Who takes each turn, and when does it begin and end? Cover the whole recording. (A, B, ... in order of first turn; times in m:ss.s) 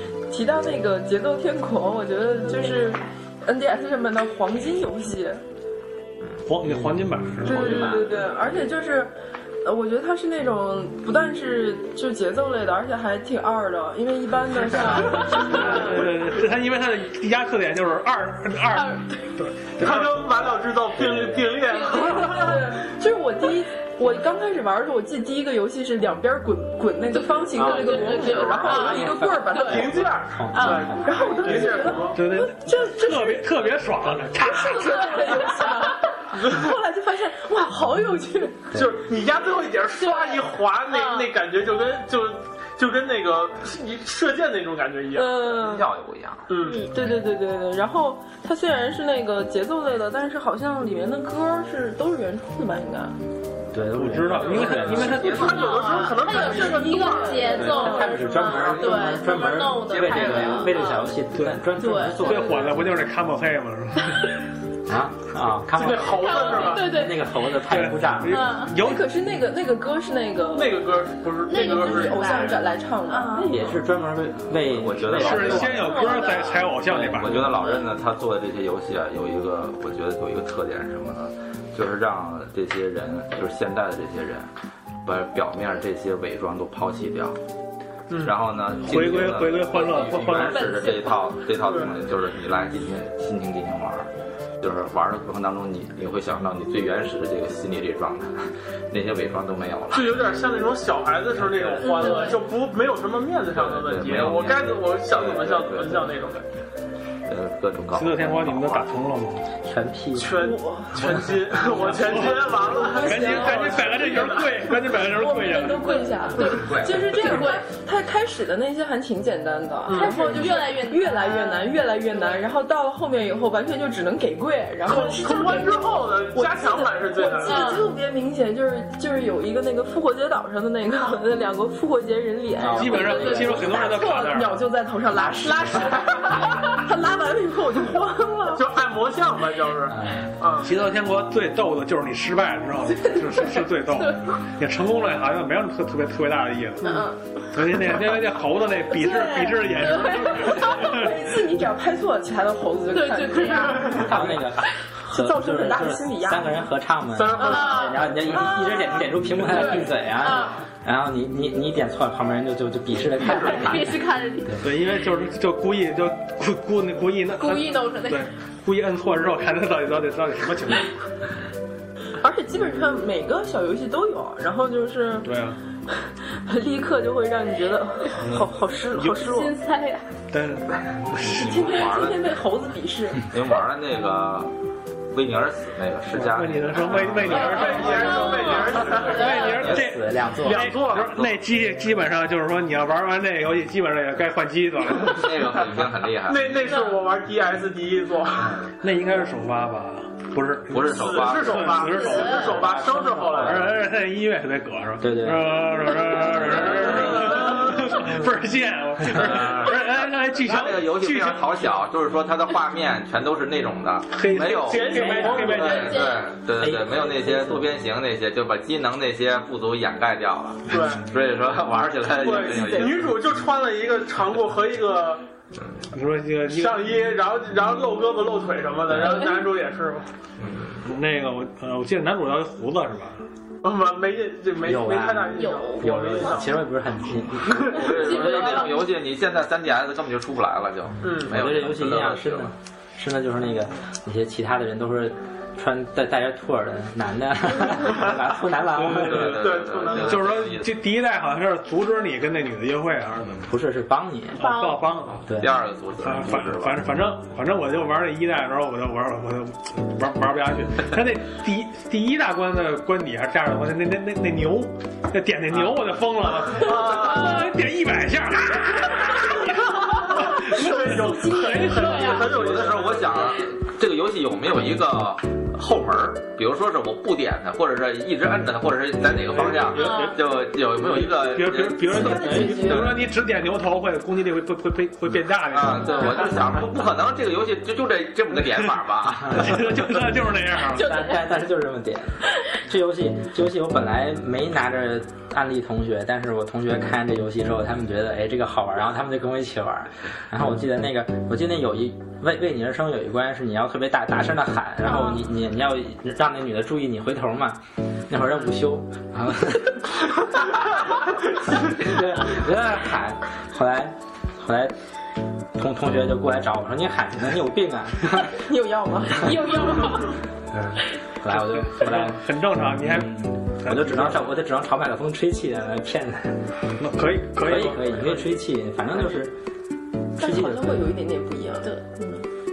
0:00.3-0:05.4 A
0:02.5-0:03.0 B
0:06.4-0:08.0 C
0:06.7-0:07.4 D
0:07.4-0:09.1 A
0:07.5-0:08.0 B
0:09.6-0:16.1 A
0:14.7-0:15.8 B
0:15.5-0:20.3 C
0:18.7-0:19.1 B
0:19.8-0:22.6 E
0:21.0-0:21.4 D
0:21.7-0:22.2 B
0:21.9-0:30.1 A
0:27.1-0:29.9 B
0:27.5-0:29.7 D
0:29.6-0:32.2 E
0:30.3-0:31.1 D
0:30.5-0:31.2 B
0:31.0-0:33.5 A
0:31.4-0:35.2 C
0:34.5-0:38.7 A
0:34.5-0:36.1 B
0:38.7-0:39.0 D
0:38.7-0:45.4 E
0:40.0-0:41.3 B
0:45.1-0:45.9 A
0:45.5-0:46.5 F
0:46.5-0:46.9 E
0:46.6-0:47.1 B
0:46.8-0:53.2 A
0:53.7-0:55.3 D
0:53.9-0:55.6 C
0:54.4-0:55.3 F
0:55.0-0:57.6 E
0:55.2-0:55.6 A
0:55.4-1:01.1 B
0:56.2-0:58.3 A
0:57.5-1:02.9 D
0:58.4-0:59.1 F
0:59.9-1:00.7 F
1:01.3-1:04.3 C
1:01.8-1:02.7 B
1:04.9-1:08.5 D
1:05.7-1:06.9 E
1:06.1-1:07.2 B
1:07.7-1:09.1 C
1:08.3-1:08.7 B
1:08.7-1:10.9 A
1:10.5-1:12.6 E
1:11.5-1:13.6 B
1:11.6-1:13.8 A
1:13.4-1:15.9 D
1:14.5-1:16.0 G
1:15.1-1:17.5 C
1:15.7-1:16.7 B
1:16.9-1:24.5 G
1:17.6-1:17.9 B
1:25.0-1:27.4 G
1:28.1-1:28.3 E
1:28.2-1:34.1 G
1:28.8-1:30.7 C
1:30.3-1:31.3 B
1:31.6-1:31.9 E
1:34.6-1:40.2 G
1:39.9-1:46.4 E
1:41.8-1:42.4 B
1:43.5-1:46.1 G
1:47.2-1:48.9 G
1:47.9-1:49.5 C
1:49.6-1:50.4 D
1:50.1-1:54.6 E
1:50.3-1:51.1 A
1:51.8-1:56.0 C
1:52.6-2:05.8 A
1:55.9-1:57.6 B
1:59.9-2:00.5 E
1:59.9-2:02.4 B
2:04.9-2:07.8 E
2:04.9-2:05.6 B
2:06.3-2:18.6 A
2:07.4-2:07.9 B
2:12.6-2:13.8 D
2:12.7-2:14.6 C
2:12.9-2:14.2 B
2:15.1-2:16.0 D
2:15.5-2:16.8 B
2:18.5-2:20.7 E
2:19.9-2:20.3 D
2:20.6-2:27.0 C
2:23.9-2:24.3 B
2:26.8-2:27.2 B
2:27.5-2:31.4 C
2:29.0-2:29.6 A
2:29.8-2:30.8 B
2:30.2-2:34.4 A
2:32.9-2:34.1 B
2:33.9-2:44.6 D
2:35.0-2:36.7 A
2:37.1-2:38.1 E
2:37.4-2:38.0 B
2:38.3-2:39.0 A
2:39.4-2:40.6 B
2:43.2-2:44.5 B
2:44.6-2:50.9 C
2:47.4-2:48.3 B
2:52.2-2:55.3 A
2:55.2-2:55.6 C
2:56.3-2:59.5 A
2:58.2-2:59.2 C
2:59.0-3:00.0 B
3:00.3-3:01.7 C
3:01.2-3:02.4 G
3:01.2-3:03.3 A
3:03.2-3:04.5 G
3:05.1-3:07.8 G
3:06.1-3:15.5 C
3:07.0-3:09.7 B
3:07.4-3:09.4 E
3:09.5-3:10.7 D
3:10.4-3:11.1 E
3:10.9-3:11.4 G
3:15.0-3:16.5 G
3:16.2-3:18.6 E
3:16.6-3:17.0 B
3:18.8-3:22.7 C
3:20.7-3:21.9 G
3:20.9-3:23.7 E
3:21.9-3:22.5 B
3:22.5-3:23.7 D
3:23.3-3:31.5 C
3:25.0-3:27.4 D
3:26.8-3:27.1 G
3:27.1-3:27.9 E
3:29.1-3:43.1 G
3:34.1-3:36.0 C
3:34.6-3:36.0 E
3:34.9-3:35.4 D
3:35.7-3:36.3 B
3:36.6-3:37.7 D
3:40.7-3:41.1 E
3:42.1-3:45.2 E
3:42.2-3:43.0 A
3:45.9-3:47.0 C
3:46.4-3:50.1 E
3:49.0-3:49.4 B
3:50.4-3:50.9 G
3:50.8-3:53.2 C
3:53.6-3:56.7 E
3:54.6-3:57.8 D
3:55.3-3:56.4 B
3:57.7-4:02.5 G
3:57.8-3:58.9 B
4:01.0-4:01.3 E
4:01.2-4:09.4 D
4:08.7-4:13.4 C
4:08.8-4:10.7 G
4:09.4-4:10.2 E
4:13.4-4:14.5 D
4:14.4-4:14.9 B
4:14.4-4:15.2 C
4:15.1-4:16.8 G
4:16.0-4:32.1 C
4:26.6-4:27.3 E
4:30.3-4:33.3 E
4:30.6-4:31.8 A
4:31.7-4:32.2 B
4:32.2-4:43.0 G
4:39.0-4:40.1 C
4:39.8-4:40.2 B
4:40.7-4:46.4 C
4:41.8-4:43.0 A
4:41.9-4:42.8 D
4:45.5-4:49.8 G
4:46.0-4:46.2 B
4:49.3-4:50.8 C
4:50.7-4:51.2 B
4:50.7-5:09.8 D
5:04.8-5:05.2 B
5:11.6-5:14.7 D
5:15.5-5:18.3 D
5:18.2-5:19.5 A
5:19.1-5:20.2 B
5:20.5-5:22.2 D
5:21.2-5:24.3 C
5:22.8-5:26.4 D
5:26.8-5:28.3 C
5:27.4-5:29.3 D
5:30.2-5:30.9 D
5:30.2-5:31.8 A
5:31.6-5:32.2 B